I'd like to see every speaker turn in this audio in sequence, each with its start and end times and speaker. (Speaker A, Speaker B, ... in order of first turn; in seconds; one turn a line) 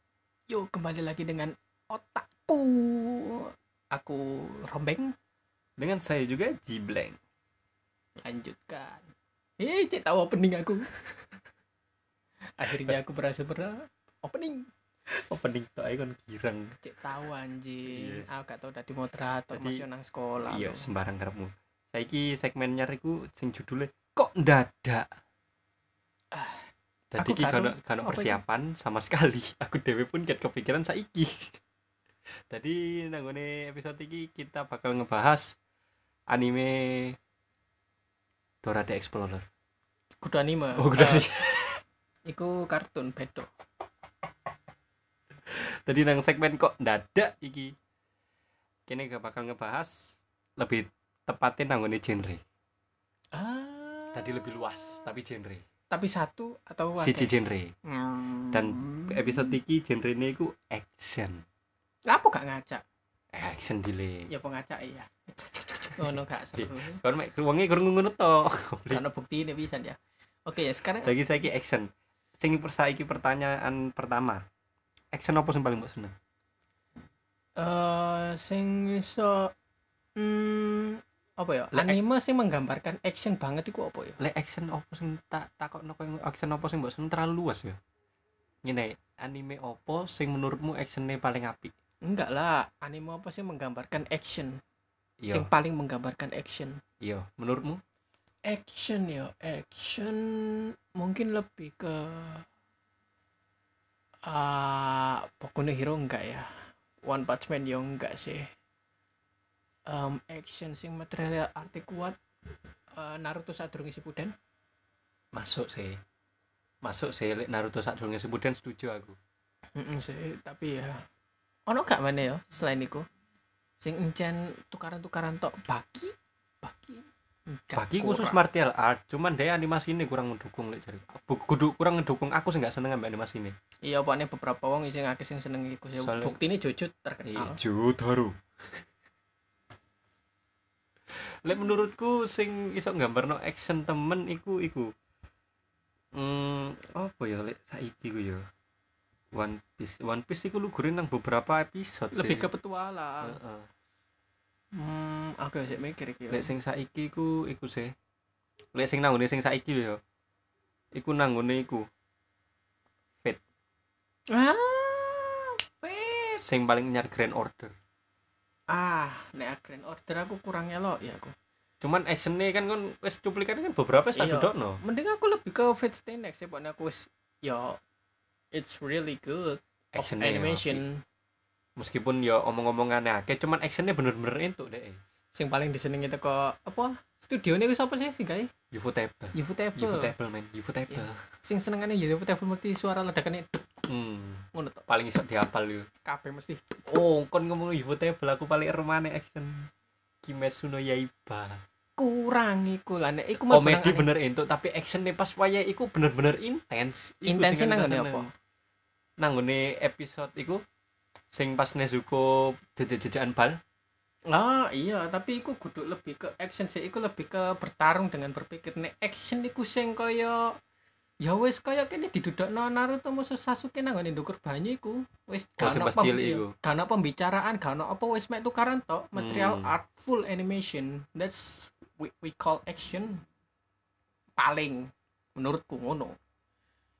Speaker A: 0.5-5.1
Speaker B: 5.8-7.2
Speaker A: 8.2-9.1
Speaker A: 9.6-10.9
Speaker A: 12.6-14.7
Speaker B: 15.1-16.8
Speaker A: 16.8-20.8
Speaker B: 17.8-18.3
Speaker B: 19.5-19.8
Speaker B: 20.5-25.1
Speaker A: 26.3-28.4
Speaker B: 27.1-31.6
Speaker B: 32.5-35.5
Speaker B: 36.3-37.2
Speaker B: 38.6-39.4
Speaker A: 40.2-41.7
Speaker B: 40.8-41.5
Speaker A: 42.2-43.5
Speaker B: 45.5-47.7
Speaker B: 48.9-52.4
Speaker A: 53.3-55.0
Speaker B: 54.1-55.6
Speaker A: 55.9-57.3
Speaker B: 57.0-57.7
Speaker A: 57.8-59.5
Speaker B: 58.5-61.4
Speaker A: 62.1-62.8
Speaker B: 63.3-64.3
Speaker A: 64.3-67.0
Speaker B: 65.7-66.0
Speaker B: 66.5-69.0
Speaker A: 68.9-71.1
Speaker B: 71.0-71.9
Speaker B: 72.4-74.4
Speaker B: 75.1-76.1
Speaker A: 77.6-79.5
Speaker A: 80.2-84.2
Speaker B: 84.2-87.8
Speaker B: 88.6-91.7
Speaker A: 92.0-94.6
Speaker B: 95.2-95.5
Speaker A: 95.3-96.8
Speaker B: 97.0-97.8
Speaker A: 98.4-102.5
Speaker A: 104.2-108.5
Speaker A: 109.9-112.2
Speaker A: 112.9-114.3
Speaker B: 115.3-116.0
Speaker B: 116.8-119.2
Speaker A: 119.8-121.0
Speaker A: 121.7-123.1
Speaker A: 123.8-128.4
Speaker B: 127.8-133.5
Speaker A: 133.8-137.6
Speaker B: 136.0-136.3
Speaker B: 137.3-138.8
Speaker B: 141.1-144.9
Speaker B: 146.1-148.4
Speaker B: 149.3-152.5
Speaker A: 152.1-153.3
Speaker B: 153.2-153.7
Speaker A: 154.7-156.5
Speaker B: 156.3-157.9
Speaker B: 158.7-160.0
Speaker B: 160.9-161.8
Speaker A: 164.3-166.4
Speaker B: 166.4-167.7
Speaker A: 168.7-171.3
Speaker B: 171.8-174.8
Speaker A: 174.2-177.8
Speaker A: 178.5-181.0
Speaker B: 179.9-180.8
Speaker B: 181.8-185.0
Speaker A: 185.3-188.5
Speaker B: 188.7-191.2
Speaker A: 189.3-190.1
Speaker A: 190.9-193.7
Speaker B: 193.9-195.9
Speaker A: 194.5-194.8
Speaker A: 196.0-196.6
Speaker B: 196.8-199.7
Speaker B: 200.2-201.6
Speaker A: 202.0-204.1
Speaker B: 203.5-208.3
Speaker A: 207.2-208.3
Speaker B: 209.2-210.6
Speaker B: 211.3-213.6
Speaker A: 214.3-220.6
Speaker A: 221.2-233.2
Speaker B: 225.6-226.5
Speaker B: 229.2-229.7
Speaker A: 234.4-236.2